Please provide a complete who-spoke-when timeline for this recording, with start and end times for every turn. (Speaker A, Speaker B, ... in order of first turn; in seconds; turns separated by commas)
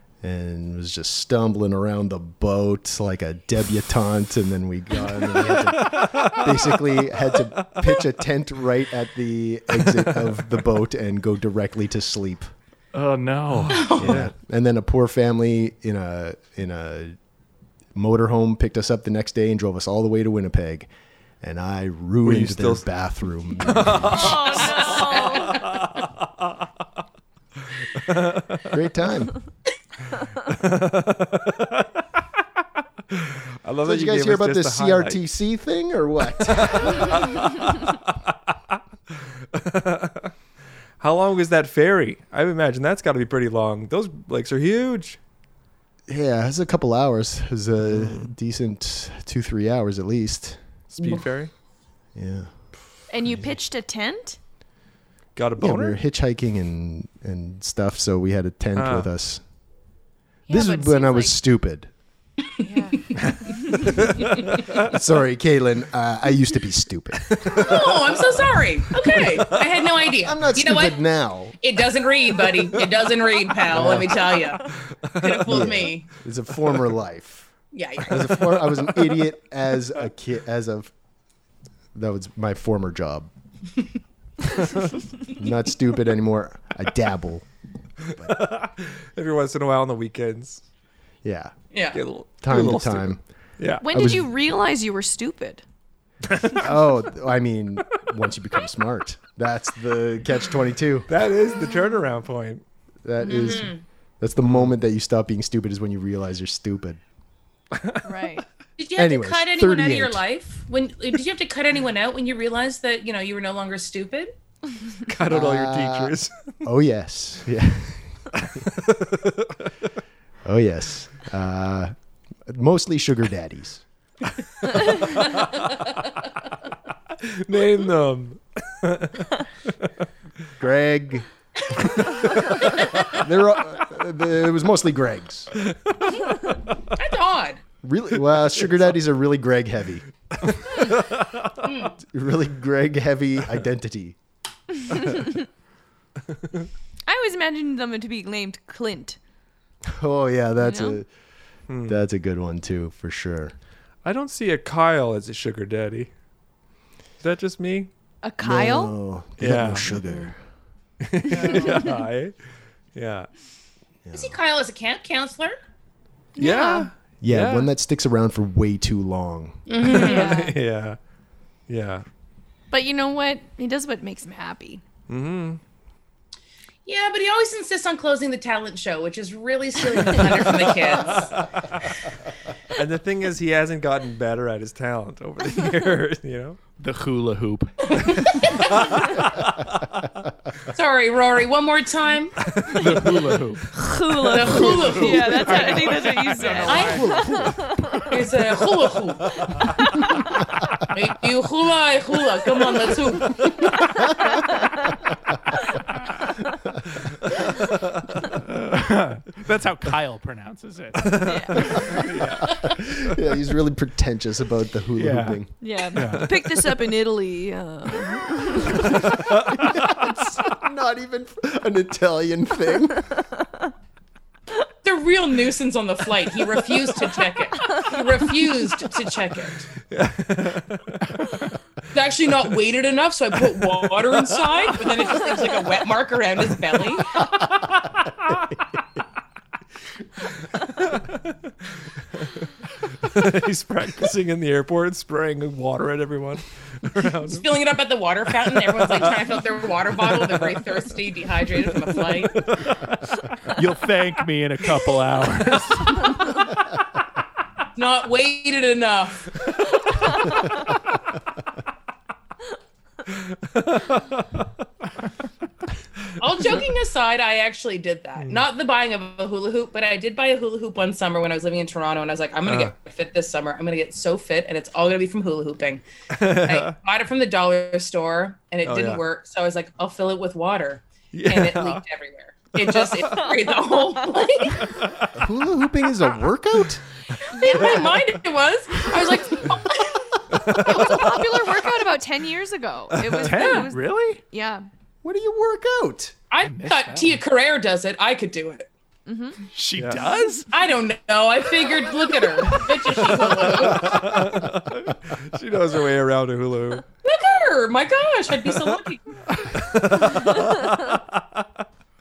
Speaker A: 0.2-12.5, Speaker B: 5.5-6.5, Speaker C: 12.9-14.1, Speaker B: 13.7-14.3, Speaker D: 13.7-14.2, Speaker A: 14.0-17.1, Speaker A: 17.9-20.9, Speaker A: 21.4-24.4, Speaker B: 22.2-22.9, Speaker B: 23.6-26.3, Speaker E: 24.1-25.6, Speaker D: 24.6-25.6, Speaker B: 28.0-28.7, Speaker A: 28.7-29.3, Speaker B: 30.4-31.9, Speaker B: 33.1-35.2, Speaker A: 33.8-37.1, Speaker B: 36.5-38.8, Speaker B: 39.5-40.3, Speaker B: 41.0-45.2, Speaker A: 46.1-50.6, Speaker B: 47.9-48.2, Speaker B: 50.9-51.5, Speaker A: 52.1-52.5, Speaker E: 53.1-54.4, Speaker B: 55.4-56.0, Speaker A: 55.6-59.4, Speaker B: 58.8-59.1, Speaker E: 60.5-61.4, Speaker A: 60.5-61.9, Speaker E: 62.6-63.8, Speaker B: 63.9-64.9, Speaker A: 64.8-67.8, Speaker B: 67.2-68.2, Speaker D: 67.5-71.0, Speaker A: 70.2-71.6, Speaker D: 71.6-74.7, Speaker A: 73.7-74.2, Speaker B: 74.9-75.7, Speaker D: 75.2-76.1, Speaker A: 75.5-77.5, Speaker D: 77.7-78.7, Speaker A: 78.1-80.9, Speaker A: 81.9-83.3, Speaker B: 84.6-84.9, Speaker A: 85.3-87.5, Speaker B: 88.1-90.6, Speaker A: 91.2-91.5, Speaker D: 91.7-92.0, Speaker B: 91.9-93.8, Speaker A: 92.4-93.2, Speaker E: 93.8-95.6, Speaker A: 93.9-94.3, Speaker B: 96.3-96.7, Speaker A: 96.6-101.1, Speaker B: 101.1-102.6, Speaker A: 103.0-107.0, Speaker D: 103.2-103.8, Speaker B: 104.5-104.7, Speaker B: 107.7-108.0, Speaker E: 108.0-108.5, Speaker D: 108.8-114.3, Speaker A: 109.0-110.2, Speaker B: 115.1-116.6, Speaker A: 115.3-118.2, Speaker B: 118.3-119.6, Speaker A: 120.4-121.9, Speaker A: 122.5-123.8, Speaker B: 127.2-129.9, Speaker A: 130.6-131.2, Speaker A: 133.1-135.5, Speaker B: 135.6-136.1, Speaker D: 136.9-137.6, Speaker A: 137.8-140.0, Speaker B: 140.4-141.5, Speaker D: 141.6-141.9, Speaker A: 142.1-144.2, Speaker E: 147.1-149.2, Speaker A: 149.8-151.1, Speaker E: 150.6-151.0, Speaker B: 151.7-152.0, Speaker A: 151.9-153.5, Speaker B: 154.0-156.1, Speaker B: 157.2-157.9, Speaker E: 158.2-158.9, Speaker A: 158.4-160.3, Speaker B: 159.4-160.2, Speaker B: 161.0-162.3, Speaker E: 161.3-161.9, Speaker B: 162.9-163.3, Speaker A: 164.0-164.4, Speaker D: 164.1-165.6, Speaker E: 166.3-166.9, Speaker B: 166.4-167.7, Speaker A: 167.2-169.6, Speaker D: 169.7-170.6, Speaker B: 169.8-171.0, Speaker E: 169.8-170.4, Speaker B: 171.7-172.0, Speaker E: 172.7-174.8, Speaker B: 175.1-175.6, Speaker D: 176.8-181.3, Speaker B: 180.2-181.8, Speaker B: 182.7-186.6, Speaker C: 186.8-187.7, Speaker D: 187.9-188.7, Speaker B: 188.7-190.1, Speaker D: 190.7-192.3, Speaker B: 192.4-193.0, Speaker C: 192.7-197.3, Speaker E: 193.7-198.1, Speaker D: 194.3-196.1, Speaker D: 196.6-197.3, Speaker D: 198.1-199.3, Speaker D: 200.9-203.9, Speaker B: 207.7-208.0, Speaker C: 208.5-211.7, Speaker B: 211.0-213.1, Speaker E: 211.2-211.8, Speaker A: 212.6-215.5, Speaker C: 214.9-216.2, Speaker E: 215.6-219.2, Speaker B: 216.0-216.6, Speaker B: 219.1-220.0, Speaker A: 219.7-223.1, Speaker D: 224.8-229.7, Speaker B: 229.8-231.2, Speaker D: 231.9-237.2, Speaker B: 233.6-234.3, Speaker B: 237.2-238.4, Speaker B: 240.6-241.3, Speaker B: 242.1-247.4, Speaker D: 247.2-252.4, Speaker B: 248.6-249.1, Speaker B: 250.1-250.6, Speaker B: 251.9-252.8, Speaker C: 253.5-256.2, Speaker D: 257.8-260.0, Speaker B: 263.5-264.4, Speaker D: 266.2-284.7, Speaker B: 272.4-272.7, Speaker B: 276.1-276.7, Speaker B: 278.6-279.0, Speaker B: 281.1-281.8, Speaker B: 282.6-283.2, Speaker B: 284.6-285.2, Speaker A: 285.2-286.8, Speaker D: 287.3-290.2, Speaker E: 287.4-287.9, Speaker B: 290.3-291.0, Speaker E: 290.5-294.7, Speaker B: 292.9-293.4, Speaker C: 293.2-294.2, Speaker A: 295.0-296.1, Speaker D: 296.3-298.7, Speaker C: 296.4-297.1, Speaker E: 299.1-299.4, Speaker C: 299.5-300.5, Speaker B: 299.7-300.1, Speaker D: 300.5-304.2, Speaker B: 303.5-306.8, Speaker D: 307.0-309.0, Speaker B: 309.4-311.4